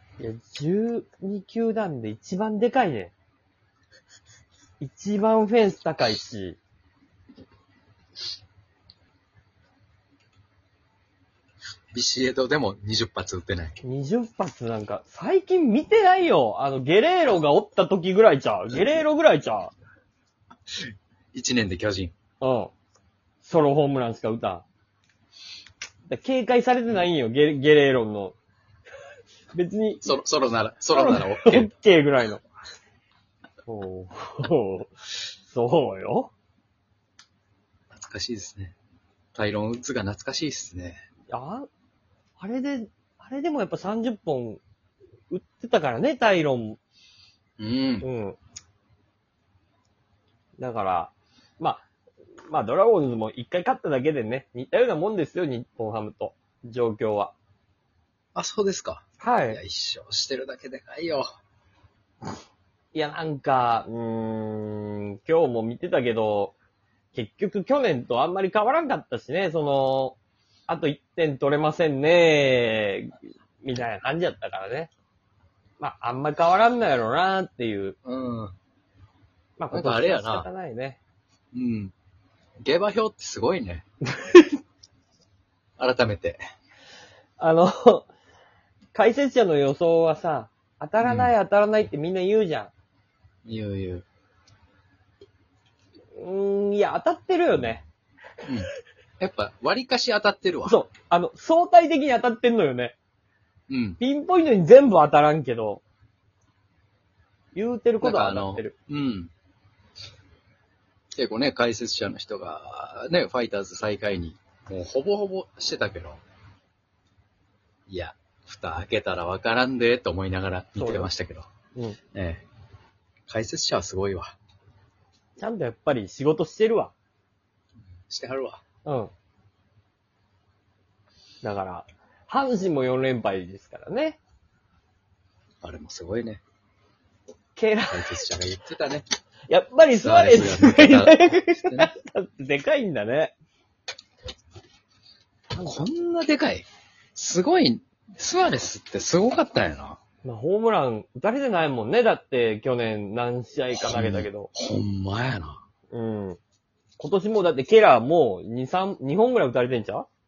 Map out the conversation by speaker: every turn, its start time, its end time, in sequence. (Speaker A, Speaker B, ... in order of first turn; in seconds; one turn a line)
Speaker A: 0.2-3.1
Speaker A: 4.8-6.6
Speaker B: 11.9-13.8
Speaker A: 13.8-19.7
Speaker B: 21.3-22.1
Speaker A: 22.4-22.7
Speaker A: 23.4-24.6
Speaker A: 26.1-28.4
Speaker A: 29.5-30.1
Speaker B: 30.0-31.7
Speaker A: 30.9-32.4
Speaker A: 33.7-36.3
Speaker B: 37.9-38.8
Speaker B: 39.4-41.0
Speaker A: 41.3-41.7
Speaker A: 42.4-44.6
Speaker A: 45.3-46.8
Speaker B: 47.6-48.1
Speaker A: 48.0-48.4
Speaker A: 50.6-51.9
Speaker A: 52.5-57.4
Speaker B: 58.4-61.3
Speaker A: 59.2-59.6
Speaker A: 62.9-66.6
Speaker A: 67.1-70.2
Speaker A: 70.7-74.9
Speaker A: 75.8-78.0
Speaker B: 78.0-78.5
Speaker A: 79.6-81.0
Speaker B: 79.7-80.5
Speaker B: 81.5-81.9
Speaker B: 82.6-83.8
Speaker A: 84.1-84.6
Speaker B: 85.8-86.4
Speaker A: 87.4-88.1
Speaker A: 88.9-92.7
Speaker B: 91.0-91.3
Speaker B: 93.5-94.0
Speaker A: 96.2-97.9
Speaker B: 99.2-100.8
Speaker A: 100.7-103.0
Speaker B: 103.7-104.0
Speaker A: 104.0-105.8
Speaker A: 107.5-108.7
Speaker B: 108.0-109.3
Speaker B: 111.1-116.2
Speaker B: 117.9-121.5
Speaker A: 120.8-121.1
Speaker B: 122.1-122.5
Speaker B: 123.3-124.4
Speaker A: 125.4-126.9
Speaker B: 128.1-128.6
Speaker A: 128.8-129.1
Speaker A: 131.4-134.2
Speaker B: 135.6-136.4
Speaker A: 137.6-138.2
Speaker B: 137.9-139.1
Speaker A: 139.5-143.4
Speaker B: 140.0-141.9
Speaker A: 145.5-145.9
Speaker B: 145.6-150.0
Speaker A: 150.2-154.5
Speaker B: 153.9-155.6
Speaker A: 155.9-156.4
Speaker A: 157.0-160.1